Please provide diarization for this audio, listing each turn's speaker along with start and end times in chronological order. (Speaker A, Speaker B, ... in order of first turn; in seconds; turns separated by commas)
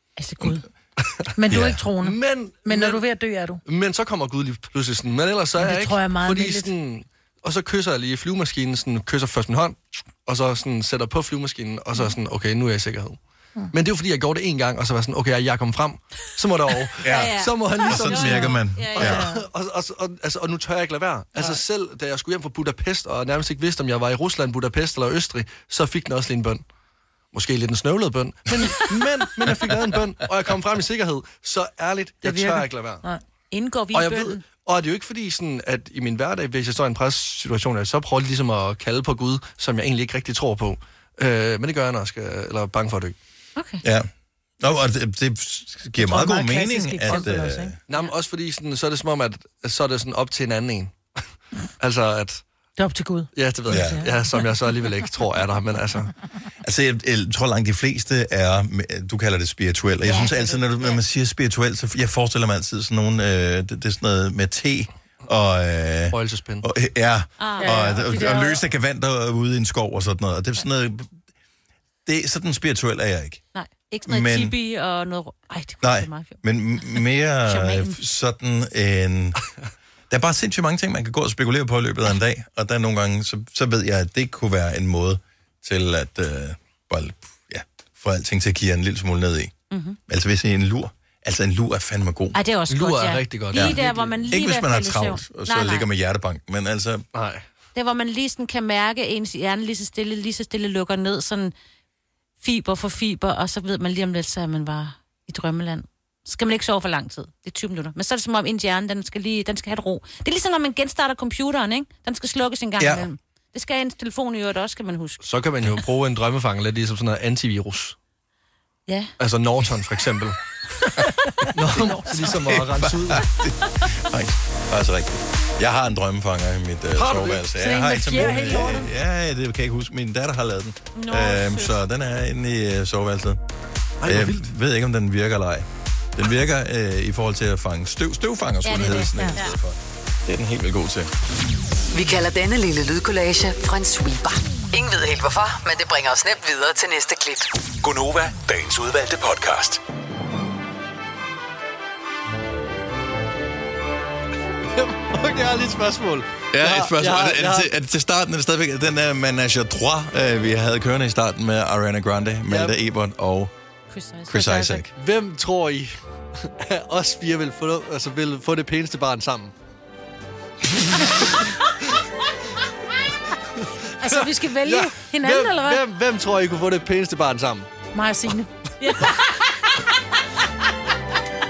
Speaker A: 0.2-0.7, Speaker B: 1.1-3.0, Speaker C: 1.4-3.6, Speaker D: 1.5-1.8, Speaker B: 3.6-13.2, Speaker C: 5.6-6.7, Speaker B: 13.7-26.6, Speaker A: 17.0-19.2, Speaker D: 17.0-19.3, Speaker C: 19.0-19.4, Speaker B: 27.3-33.0, Speaker C: 32.2-33.2, Speaker A: 33.5-34.4, Speaker B: 33.9-43.2, Speaker A: 43.6-43.8, Speaker D: 43.8-44.1, Speaker D: 44.6-47.8, Speaker C: 46.0-47.7, Speaker B: 47.9-51.0, Speaker B: 51.8-52.4, Speaker C: 52.8-54.1, Speaker B: 53.4-56.1, Speaker D: 53.7-54.0, Speaker D: 56.6-71.1, Speaker A: 60.0-61.0, Speaker B: 66.1-66.7, Speaker A: 67.4-67.9, Speaker C: 67.6-68.6, Speaker D: 72.1-73.4, Speaker A: 73.5-78.0, Speaker D: 74.1-74.5, Speaker D: 75.8-79.4, Speaker D: 80.1-89.5, Speaker A: 89.7-90.0, Speaker D: 90.1-92.4, Speaker A: 92.3-95.9, Speaker B: 92.7-94.4, Speaker D: 93.5-97.0, Speaker B: 97.1-97.5, Speaker A: 97.8-101.5, Speaker A: 102.4-115.2, Speaker D: 112.8-113.1, Speaker B: 115.2-118.0, Speaker A: 118.9-119.1, Speaker B: 119.2-120.4, Speaker B: 121.5-123.3, Speaker C: 121.7-122.4, Speaker D: 122.5-133.4, Speaker B: 127.0-127.5, Speaker C: 127.5-128.9, Speaker B: 128.2-128.7, Speaker A: 131.0-131.8, Speaker B: 134.0-134.5, Speaker D: 134.1-141.1, Speaker A: 138.6-139.6, Speaker E: 141.9-147.5, Speaker F: 147.8-149.8, Speaker B: 154.7-157.7, Speaker D: 156.5-163.5, Speaker B: 162.5-162.8, Speaker A: 163.9-164.8, Speaker D: 164.3-164.9, Speaker B: 164.9-169.5, Speaker B: 173.6-177.7, Speaker C: 174.0-175.8, Speaker C: 177.9-178.5, Speaker A: 178.8-179.8